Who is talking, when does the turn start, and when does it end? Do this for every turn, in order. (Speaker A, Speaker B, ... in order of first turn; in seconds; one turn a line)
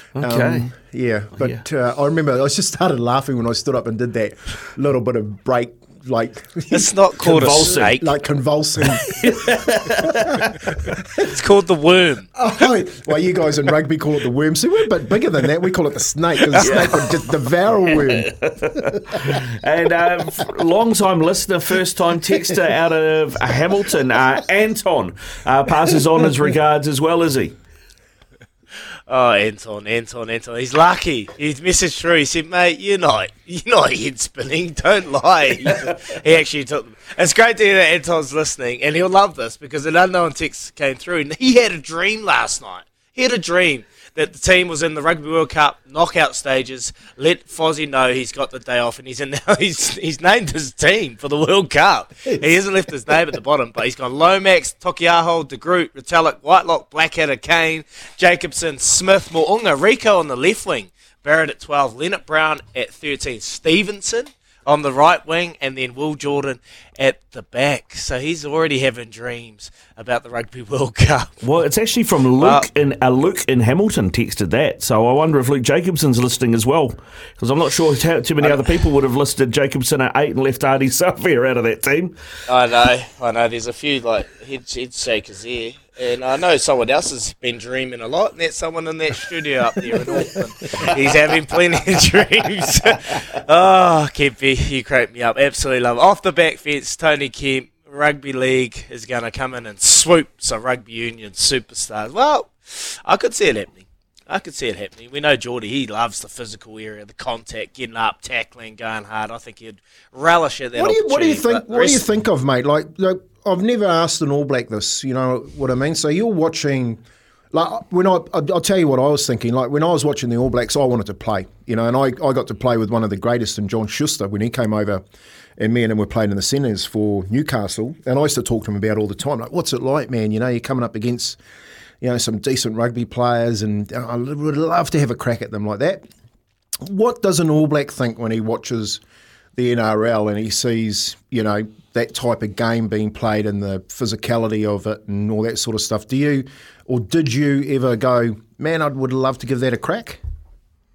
Speaker A: 0.2-0.7
Speaker B: 0.2-6.9
Speaker C: 6.7-8.1
Speaker A: 7.2-8.0
Speaker B: 7.5-9.3
Speaker A: 8.8-10.7
Speaker B: 10.0-11.3
Speaker C: 11.2-12.3
Speaker B: 12.3-18.3
Speaker A: 16.5-17.1
Speaker A: 17.9-27.6
Speaker C: 29.1-71.4
Speaker A: 71.4-82.2
Speaker C: 72.4-72.7
Speaker C: 82.5-112.1
Speaker B: 110.8-117.0
Speaker B: 117.5-125.0
Speaker B: 125.6-131.4
Speaker B: 132.0-136.0
Speaker B: 136.8-139.0
Speaker B: 139.6-150.2